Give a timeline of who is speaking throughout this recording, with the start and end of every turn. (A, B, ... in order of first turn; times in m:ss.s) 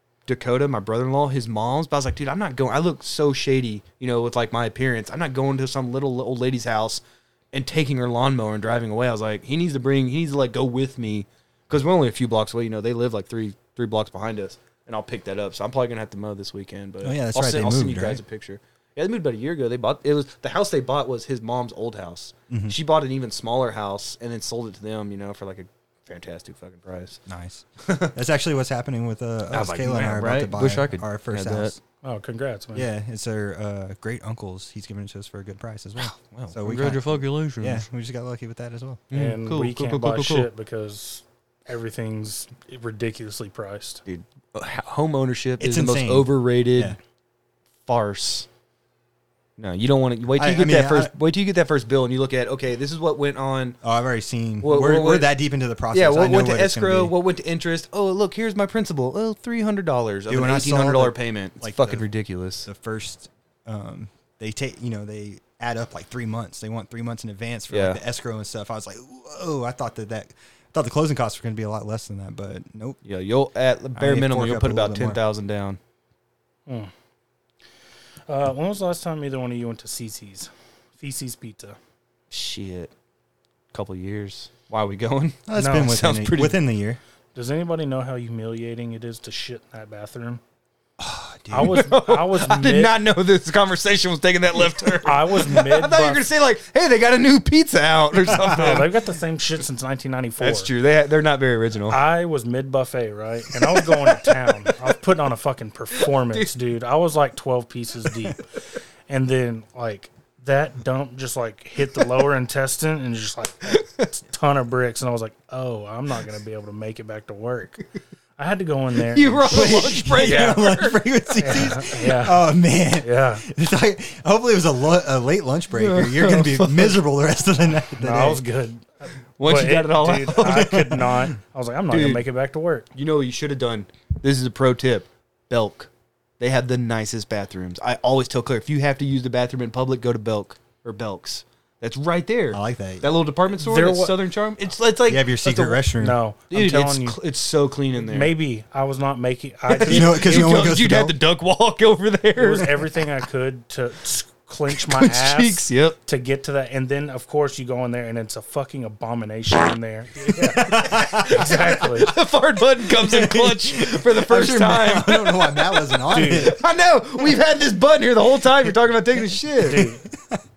0:00.3-0:27.2 A
0:17.0-0:18.2 B
0:22.5-0:22.8 B
0:27.3-0:31.8 B
0:27.8-0:28.1 A
0:29.5-0:31.8 A
0:32.0-0:32.9 C
0:32.8-0:39.1 B
0:36.0-0:37.8 A
0:39.1-0:40.5 A
0:39.1-0:44.0 C
0:44.1-0:47.0 A
0:45.6-0:47.0 B
0:47.9-0:48.5 A
0:49.6-0:53.8 A
0:50.4-0:51.1 B
0:53.8-0:57.1 B
0:54.6-0:55.3 A
0:55.9-1:02.7 A
1:00.3-1:02.0 B
1:02.6-1:13.0 B
1:07.7-1:08.0 A
1:13.0-1:15.8 A
1:14.0-1:15.2 B
1:18.3-1:21.8 C
1:22.3-1:22.9 A
1:23.7-1:26.6 A
1:25.5-1:27.0 B
1:25.6-1:25.9 C
1:27.4-1:30.4 C
1:31.0-1:31.8 B
1:31.5-1:32.9 C
1:31.6-1:38.9 A
1:35.0-1:36.2 C
1:38.3-1:38.7 B
1:38.4-1:40.7 C
1:40.4-1:42.0 A
1:41.9-1:48.4 C
1:43.6-1:44.8 A
1:46.0-1:46.5 A
1:49.1-1:57.8 C
1:53.7-1:54.1 A
1:58.4-2:00.7 C
1:59.1-2:01.0 A
1:59.5-2:08.4 B
2:01.4-2:03.4 C
2:05.7-2:07.0 A
2:08.0-2:12.9 C
2:09.4-2:10.8 A
2:10.4-2:11.3 B
2:11.9-2:12.2 A
2:13.0-2:15.9 A
2:16.4-2:25.8 A
2:22.5-2:23.2 B
2:23.6-2:24.2 C
2:25.1-2:26.2 B
2:26.0-2:27.2 C
2:26.5-2:28.3 A
2:28.0-2:30.7 C
2:29.7-2:32.8 A
2:29.8-2:31.2 B
2:32.4-2:42.1 C
2:34.8-2:36.0 A
2:40.3-2:49.9 A
2:40.7-2:41.9 B
2:42.9-2:46.6 B
2:46.1-2:46.5 C
2:49.6-2:50.0 C
2:50.1-2:50.4 B